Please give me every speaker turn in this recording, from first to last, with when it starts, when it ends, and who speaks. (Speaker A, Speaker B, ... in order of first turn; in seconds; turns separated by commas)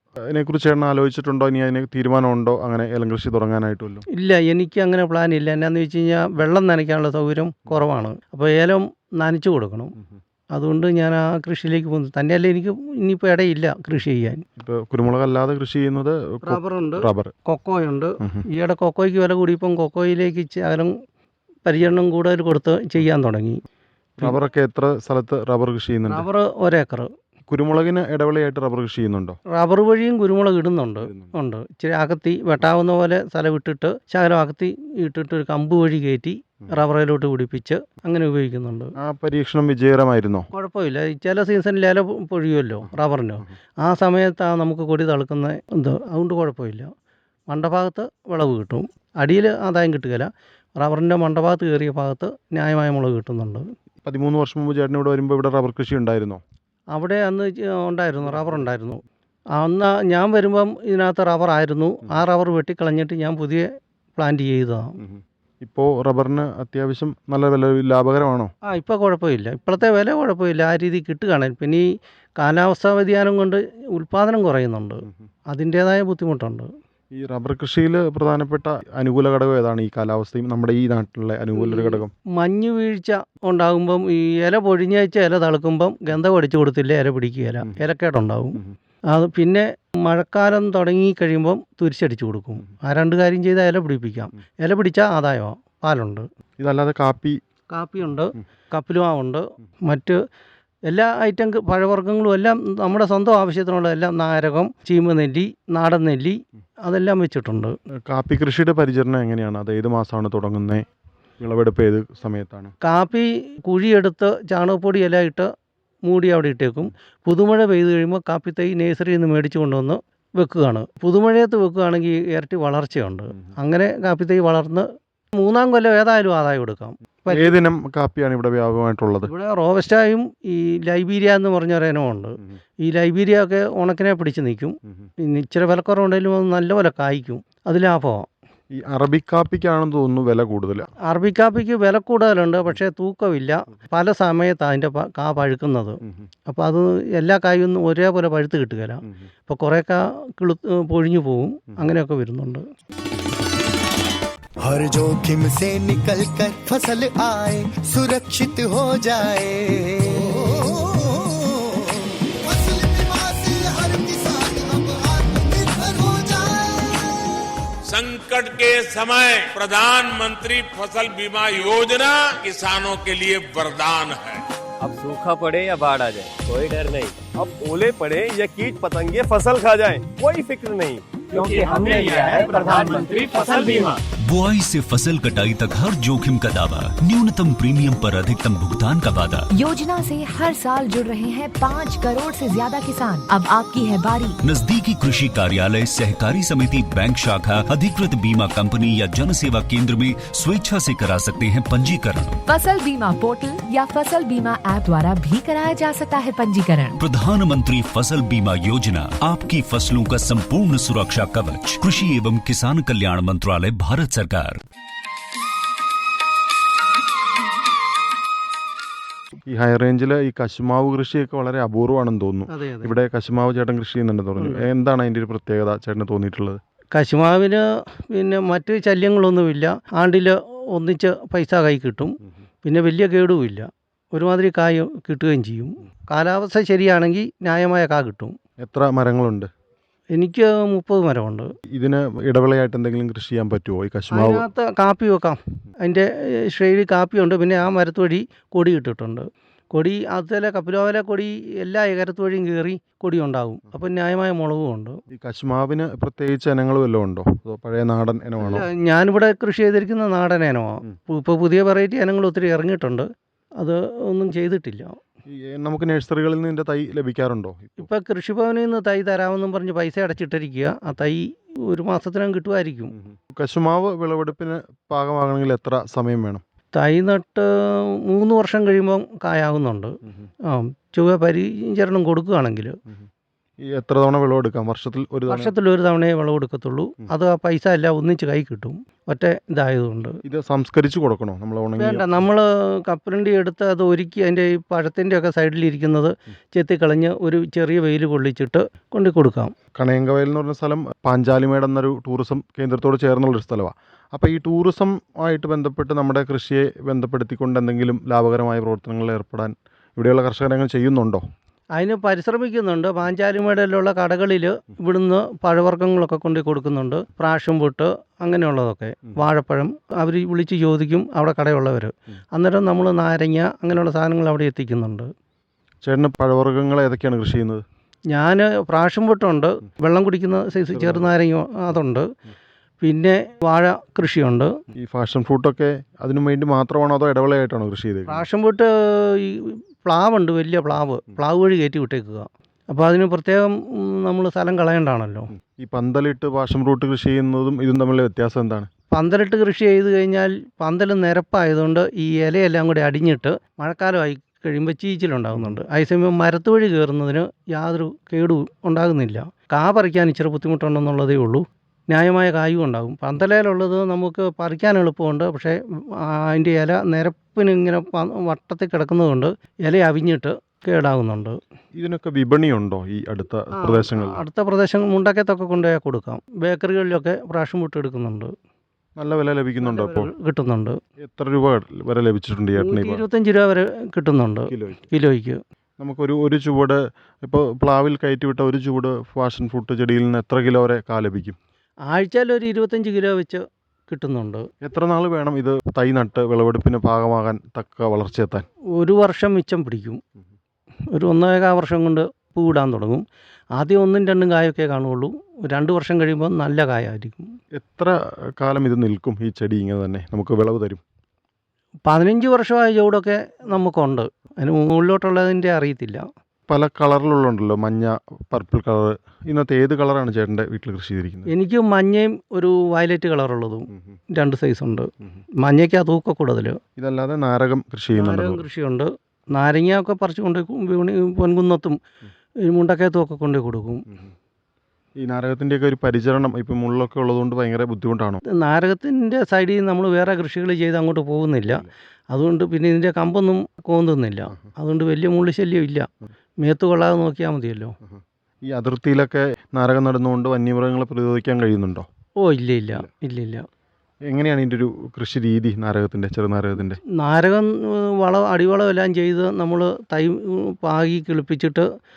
Speaker A: 0.3-4.0, Speaker B: 4.2-9.9, Speaker B: 10.5-14.4, Speaker A: 14.6-17.3, Speaker B: 16.4-20.9, Speaker B: 21.6-23.6, Speaker A: 24.2-26.2, Speaker B: 26.1-27.1, Speaker A: 27.5-29.4, Speaker B: 29.5-38.9, Speaker A: 31.0-31.3, Speaker A: 39.0-40.5, Speaker B: 40.5-46.9, Speaker B: 47.5-53.6, Speaker A: 54.0-56.4, Speaker B: 56.9-59.0, Speaker A: 58.3-58.6, Speaker B: 59.5-65.0, Speaker A: 65.0-68.5, Speaker B: 68.7-71.9, Speaker B: 72.4-76.7, Speaker A: 77.1-82.1, Speaker B: 81.6-88.6, Speaker B: 89.1-96.2, Speaker A: 96.6-97.4, Speaker B: 97.7-100.2, Speaker B: 100.9-107.8, Speaker A: 108.1-110.8, Speaker A: 111.4-112.7, Speaker B: 112.8-115.5, Speaker B: 116.1-124.9, Speaker B: 125.4-127.5, Speaker A: 127.3-129.3, Speaker B: 129.2-138.3, Speaker A: 138.7-140.9, Speaker B: 141.1-152.6, Speaker C: 154.6-167.1, Speaker D: 167.9-174.4, Speaker E: 174.8-183.8, Speaker F: 184.2-189.5, Speaker G: 189.5-194.4, Speaker F: 194.4-202.3, Speaker G: 202.5-207.0, Speaker F: 207.0-214.6, Speaker A: 219.5-226.6, Speaker B: 222.5-222.9, Speaker B: 224.4-224.7, Speaker B: 226.9-238.4, Speaker A: 238.6-239.5, Speaker B: 240.1-241.5, Speaker A: 241.8-244.4, Speaker B: 244.1-255.0, Speaker A: 255.1-258.6, Speaker B: 258.4-263.1, Speaker B: 263.6-265.0, Speaker A: 265.3-267.9, Speaker B: 267.8-272.9, Speaker A: 273.0-276.4, Speaker B: 276.8-277.5, Speaker B: 278.0-280.0, Speaker B: 280.5-282.8, Speaker A: 283.6-285.5, Speaker B: 285.3-290.1, Speaker A: 290.2-292.2, Speaker B: 291.8-299.5, Speaker A: 299.8-311.2, Speaker B: 311.8-325.1, Speaker A: 325.8-327.6, Speaker B: 328.1-332.1, Speaker A: 330.7-331.1, Speaker B: 332.8-334.5, Speaker A: 334.8-338.2, Speaker B: 338.1-345.3, Speaker A: 345.5-348.7, Speaker B: 348.9-371.4, Speaker A: 371.8-374.2, Speaker B: 373.6-378.3, Speaker A: 379.0-380.1, Speaker B: 379.6-380.8, Speaker A: 381.0-383.0, Speaker B: 382.6-385.4, Speaker A: 384.5-384.8, Speaker A: 385.8-391.4, Speaker B: 391.9-394.5, Speaker A: 394.6-398.5, Speaker B: 398.8-400.0, Speaker B: 400.9-403.0, Speaker B: 403.6-407.2, Speaker A: 407.6-410.8, Speaker B: 411.9-416.0, Speaker A: 416.5-421.3, Speaker B: 421.3-424.9, Speaker B: 425.4-426.6, Speaker A: 426.8-428.4, Speaker B: 427.9-431.8, Speaker B: 432.5-433.9, Speaker A: 435.0-438.2, Speaker B: 438.3-445.9, Speaker B: 446.4-447.8, Speaker A: 447.9-451.9, Speaker B: 452.2-453.5, Speaker A: 454.1-456.8, Speaker B: 456.9-461.6